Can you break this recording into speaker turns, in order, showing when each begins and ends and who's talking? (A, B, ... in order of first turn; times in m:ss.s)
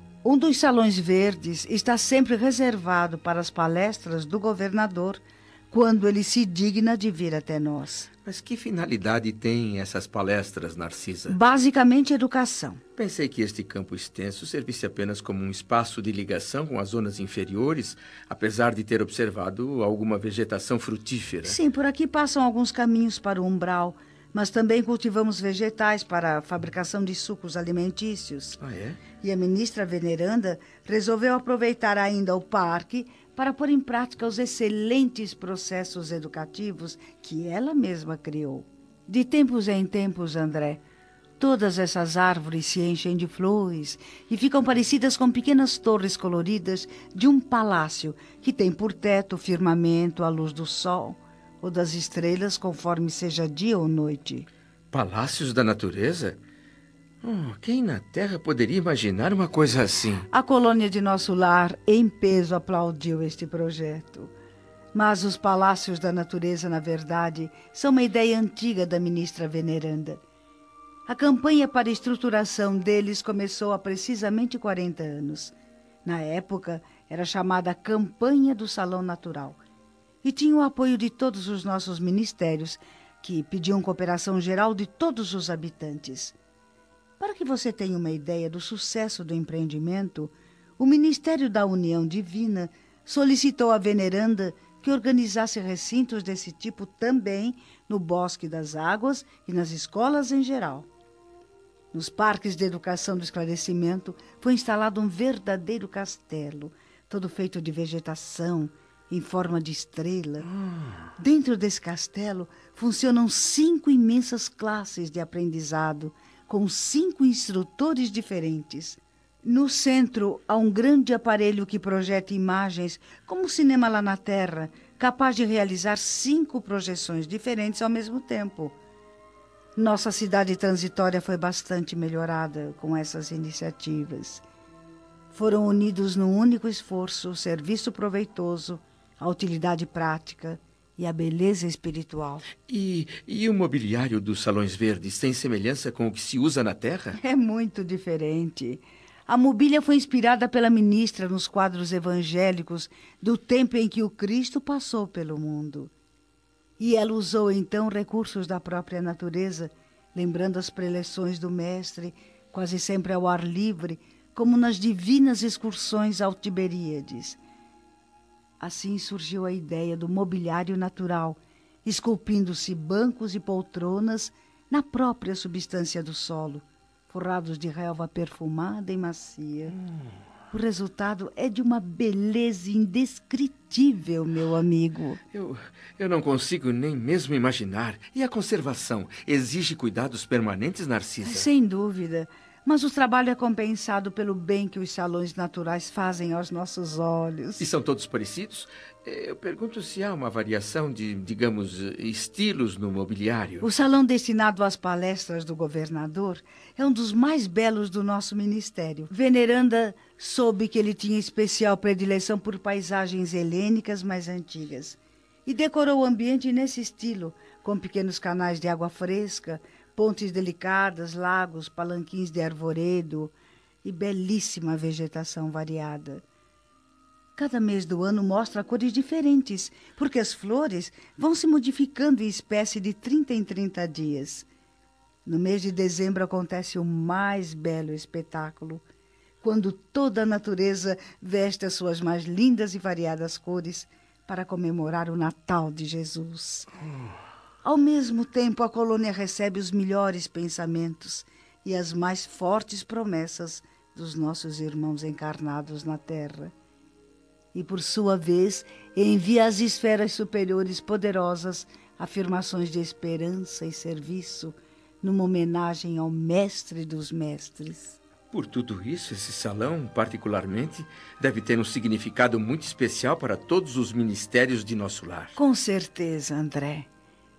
0:00.2-0:08.1 A
0:08.2-0:11.4 B
0:11.3-0:12.8 A
0:13.0-0:21.6 B
0:21.4-0:28.6 A
0:28.6-0:29.0 B
0:29.2-0:40.8 A
0:41.4-0:54.5 A
0:54.9-0:56.4 B
0:57.2-1:00.3 B
1:00.3-1:04.3 A
1:04.9-1:10.2 A
1:11.1-1:19.6 A
1:20.2-1:26.3 A
1:27.2-1:40.9 A
1:41.9-1:50.5 A
1:51.2-2:08.8 A
2:09.8-2:14.4 A
2:15.3-2:22.5 A
2:22.7-2:27.2 B
2:27.2-2:35.9 A
2:36.8-2:47.4 A
2:48.6-2:59.8 A
3:00.5-3:05.2 A
3:05.3-3:11.5 B
3:11.2-3:17.6 A
3:17.6-3:23.7 B
3:23.6-3:46.2 A
3:47.4-3:54.5 A
3:55.2-3:58.8 A
3:59.4-4:06.7 A
4:07.6-4:16.5 A
4:17.5-4:28.0 A
4:28.3-4:35.4 B
4:35.4-4:36.9 A